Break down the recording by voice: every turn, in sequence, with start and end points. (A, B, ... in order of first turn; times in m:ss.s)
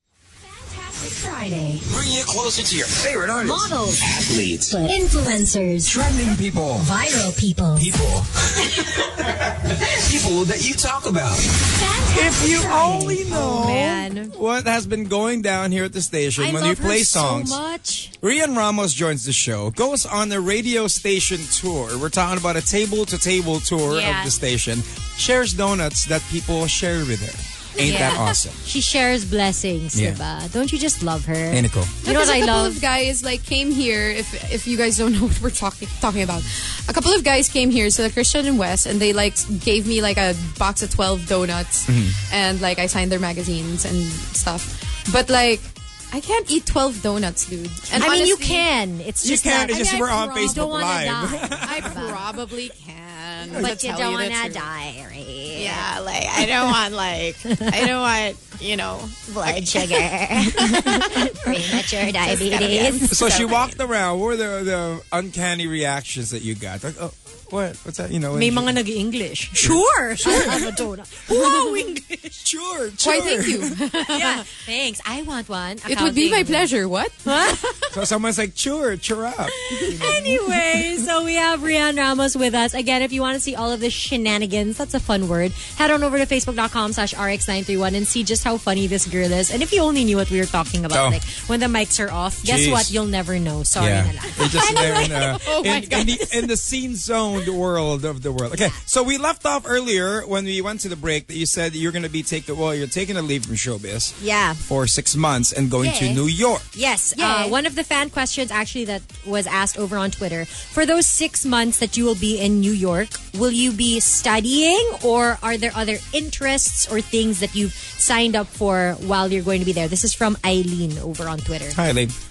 0:00.7-0:01.8 A
0:01.8-0:04.9 B
0:03.4-0:04.0 C
0:03.6-0:03.9 A
0:04.7-0:06.0 C
0:05.8-0:06.9 B
0:06.8-0:07.9 C
0:07.7-0:12.0 B
0:11.8-0:14.3 A
0:12.1-0:17.6 D
0:12.2-0:13.2 C
0:13.5-0:13.9 E
0:16.4-0:18.1 A
0:18.2-0:28.6 D
0:23.9-0:24.3 A
0:27.8-0:32.8 A
0:29.9-0:30.2 D
0:31.5-0:31.9 D
0:32.0-0:48.7 E
0:41.9-0:42.2 D
0:48.0-0:52.2 A
0:49.2-0:52.1 D
0:49.7-0:50.7 E
0:51.6-0:54.7 E
0:53.6-0:55.9 A
0:55.5-1:03.7 E
0:59.4-1:03.5 A
1:03.1-1:08.8 D
1:08.3-1:12.4 A
1:09.5-1:10.8 D
1:12.4-1:13.7 D
1:13.0-1:14.4 E
1:14.1-1:16.7 A
1:15.8-1:18.0 E
1:17.2-1:17.6 A
1:17.9-1:21.0 D
1:19.6-1:35.2 A
1:19.9-1:20.1 E
1:30.9-1:31.2 D
1:32.4-1:33.0 D
1:33.8-1:46.7 D
1:34.4-1:36.5 E
1:44.2-1:44.6 A
1:45.8-1:46.2 A
1:46.7-2:01.8 A
1:47.1-1:47.6 E
2:01.7-2:02.1 D